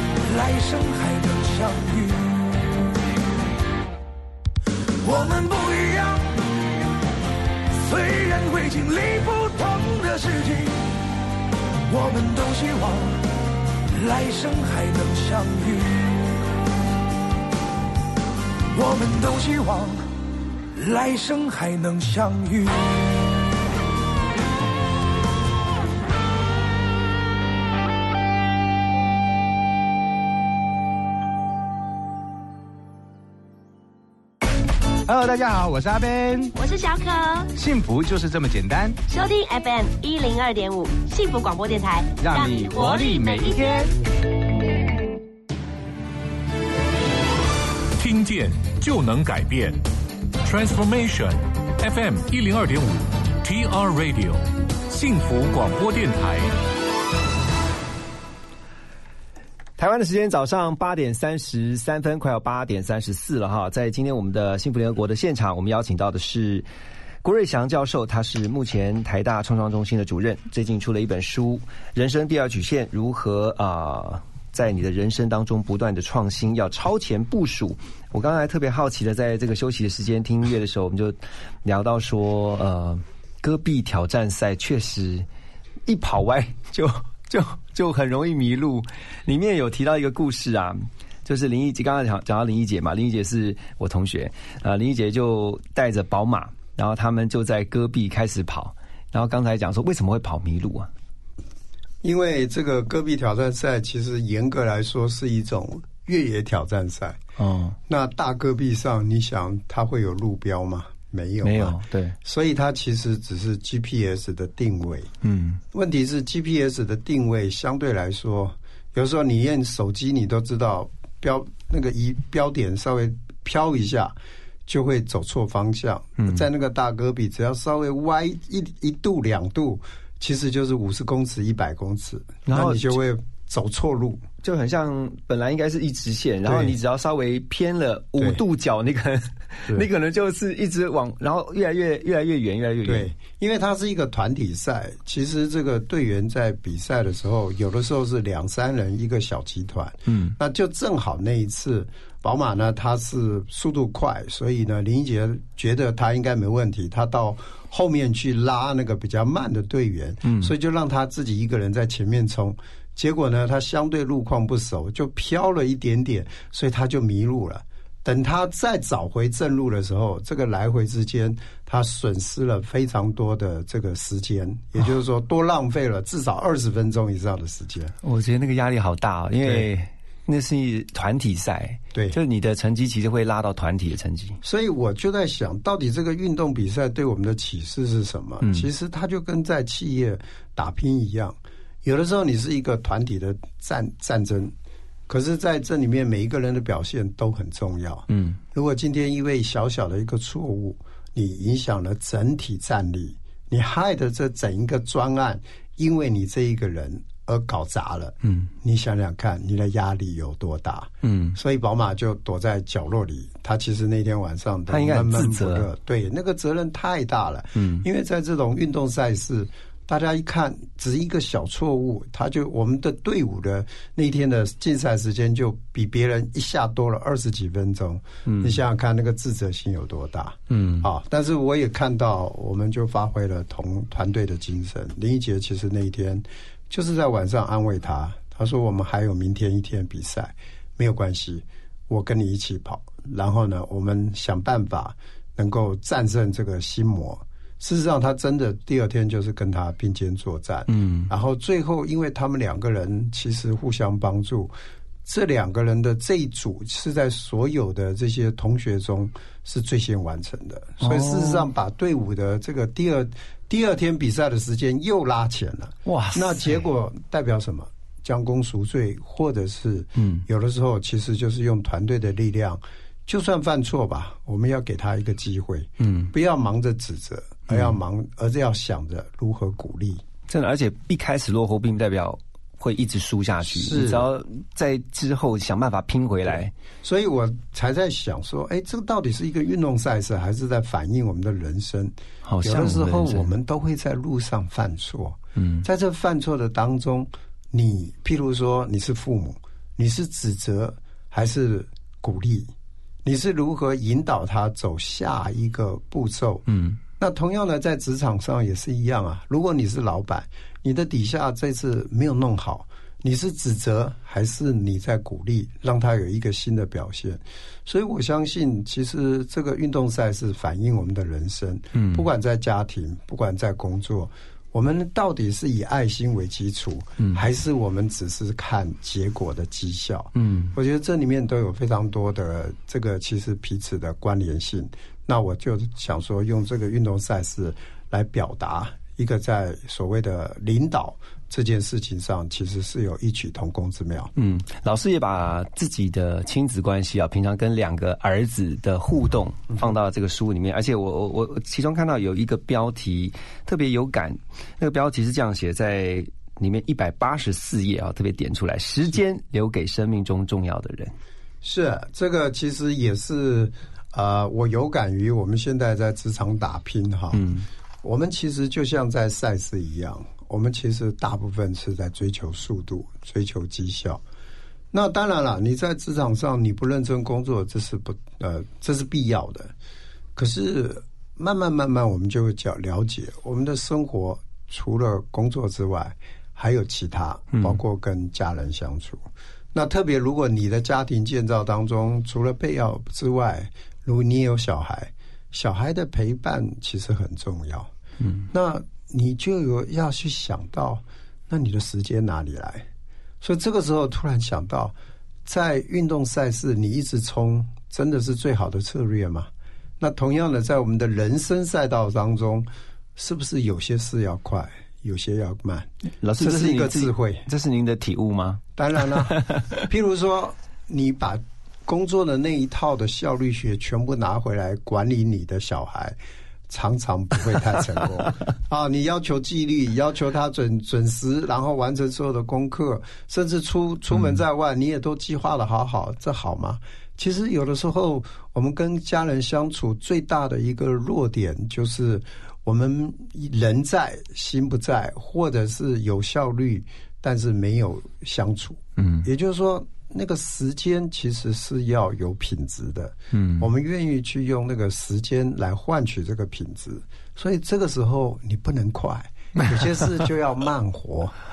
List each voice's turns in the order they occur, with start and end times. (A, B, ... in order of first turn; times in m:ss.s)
0:00.2-0:02.6 A
0:05.0-0:06.3 A
0:07.8-0:10.8 A
0:11.9-0:13.2 A
0:13.9-0:16.2 A
0:18.7-0:20.0 A
0:20.7-0:22.8 A
0:35.1-0:36.5 B
0:36.5-0:37.5 C
0:37.5-0:39.0 B
0:39.1-0:43.9 C
0:42.2-0:43.9 B
0:48.0-0:49.8 D
0:50.4-0:56.5 D
0:59.8-1:06.7 E
1:07.2-1:25.3 E
1:25.9-1:40.9 E
1:42.0-1:47.2 F
1:47.4-1:47.8 E
1:47.9-1:55.1 F
1:51.4-1:52.2 E
1:55.2-1:55.6 E
1:55.7-2:04.2 F
2:04.7-2:14.2 F
2:06.2-2:06.4 E
2:12.4-2:13.0 E
2:14.4-2:23.1 E
2:16.4-2:16.8 F
2:18.2-2:18.4 F
2:22.8-2:57.9 F
2:30.1-2:30.3 E
2:40.2-2:40.5 E
2:58.0-3:04.4 E
2:59.4-2:59.7 F
3:04.4-3:14.5 F
3:08.4-3:08.7 E
3:15.1-4:14.5 F
3:18.1-3:18.4 E
3:28.2-3:28.5 E
3:31.0-3:31.4 E
3:34.7-3:35.7 E
3:37.5-3:37.8 E
3:48.2-3:48.6 E
3:50.5-3:50.9 E
4:10.7-4:11.1 E
4:15.0-4:40.0 F
4:20.8-4:21.5 E
4:25.8-4:26.6 E
4:30.0-4:30.2 E
4:35.8-4:36.1 E
4:37.5-4:37.8 E
4:40.3-4:46.5 E
4:43.4-4:44.1 F
4:46.8-5:02.5 F
4:52.2-4:53.3 E
4:55.4-4:55.6 E
5:03.0-5:44.1 F
5:06.5-5:06.8 E
5:21.7-5:22.1 E
5:30.2-5:30.5 E
5:44.2-6:00.9 E
6:01.4-6:07.3 F
6:07.1-6:07.5 E
6:07.8-6:14.0 F
6:14.7-6:19.5 F
6:20.2-6:37.7 F
6:27.3-6:27.6 E
6:38.0-6:38.3 E
6:38.3-6:42.7 F
6:43.2-6:49.3 F
6:49.8-6:57.2 F
6:56.0-6:58.4 E
6:58.6-7:06.0 F
6:59.1-6:59.6 E
7:06.5-7:41.1 F
7:28.8-7:29.1 E
7:33.1-7:33.5 E